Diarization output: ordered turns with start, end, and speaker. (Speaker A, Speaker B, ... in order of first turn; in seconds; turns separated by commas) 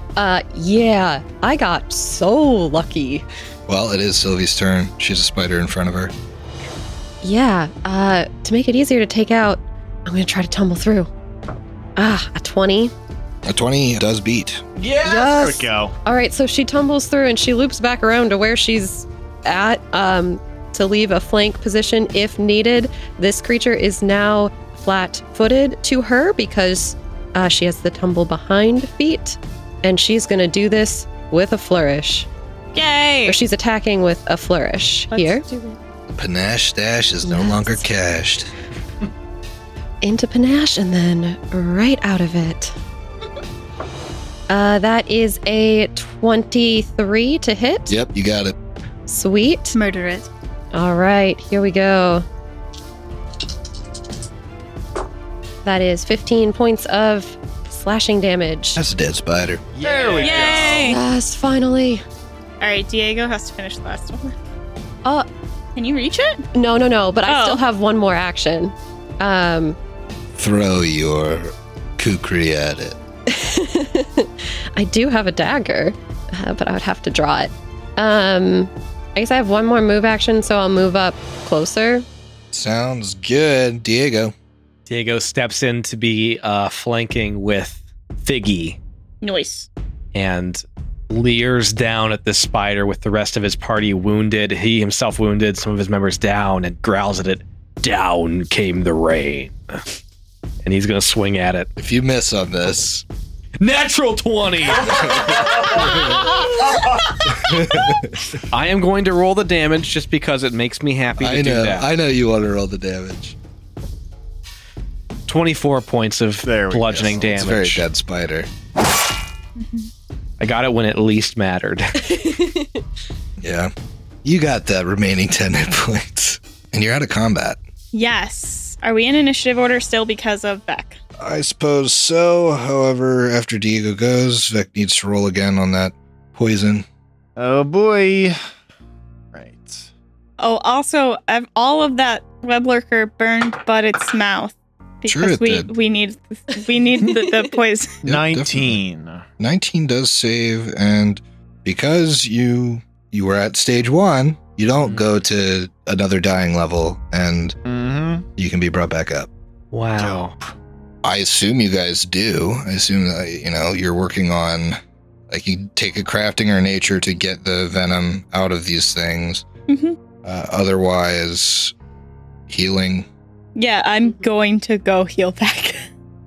Speaker A: 0.1-3.2, Speaker B: 3.7-6.1, Speaker A: 7.2-11.1, Speaker A: 11.9-12.9, Speaker B: 13.4-14.6, Speaker C: 14.8-15.4, Speaker A: 15.0-32.3, Speaker D: 15.1-15.9, Speaker E: 32.7-33.4, Speaker A: 33.2-35.4, Speaker E: 35.1-35.8, Speaker B: 36.1-38.5, Speaker A: 37.2-37.8, Speaker A: 40.0-42.7, Speaker A: 44.5-48.0, Speaker B: 47.9-48.5, Speaker A: 49.1-49.8, Speaker E: 49.7-50.3, Speaker A: 50.7-52.2, Speaker A: 55.6-58.8, Speaker B: 58.8-59.6, Speaker C: 59.8-60.9, Speaker D: 59.8-61.0, Speaker E: 60.2-61.0, Speaker A: 60.8-62.0, Speaker E: 62.6-64.4, Speaker E: 65.8-66.5, Speaker A: 66.5-69.8, Speaker E: 67.2-67.6, Speaker B: 70.3-73.0, Speaker A: 73.3-82.0, Speaker B: 82.5-84.3, Speaker C: 84.9-88.8, Speaker E: 89.2-89.7, Speaker C: 90.1-99.8, Speaker C: 100.6-101.7, Speaker B: 101.8-103.0, Speaker C: 103.6-106.0, Speaker B: 104.8-106.4, Speaker B: 107.2-108.2, Speaker C: 108.5-111.9, Speaker B: 111.2-113.3, Speaker C: 115.3-117.8, Speaker D: 116.4-117.4, Speaker B: 117.0-118.5, Speaker E: 119.6-119.9, Speaker C: 120.4-122.0, Speaker A: 122.1-122.8, Speaker B: 123.4-123.7, Speaker B: 124.2-127.6, Speaker E: 127.9-131.0, Speaker B: 131.2-136.8, Speaker D: 137.4-138.4, Speaker D: 139.3-139.9, Speaker E: 140.4-148.0, Speaker B: 145.1-145.7, Speaker D: 148.0-149.2, Speaker B: 148.1-148.8, Speaker B: 149.4-157.6, Speaker D: 154.8-155.1, Speaker D: 157.7-158.2, Speaker B: 158.4-159.3, Speaker C: 159.7-160.3, Speaker D: 160.0-160.5, Speaker B: 161.0-164.8, Speaker B: 165.3-169.4, Speaker E: 169.7-170.0, Speaker B: 170.2-171.7, Speaker B: 172.5-173.1, Speaker E: 173.6-175.8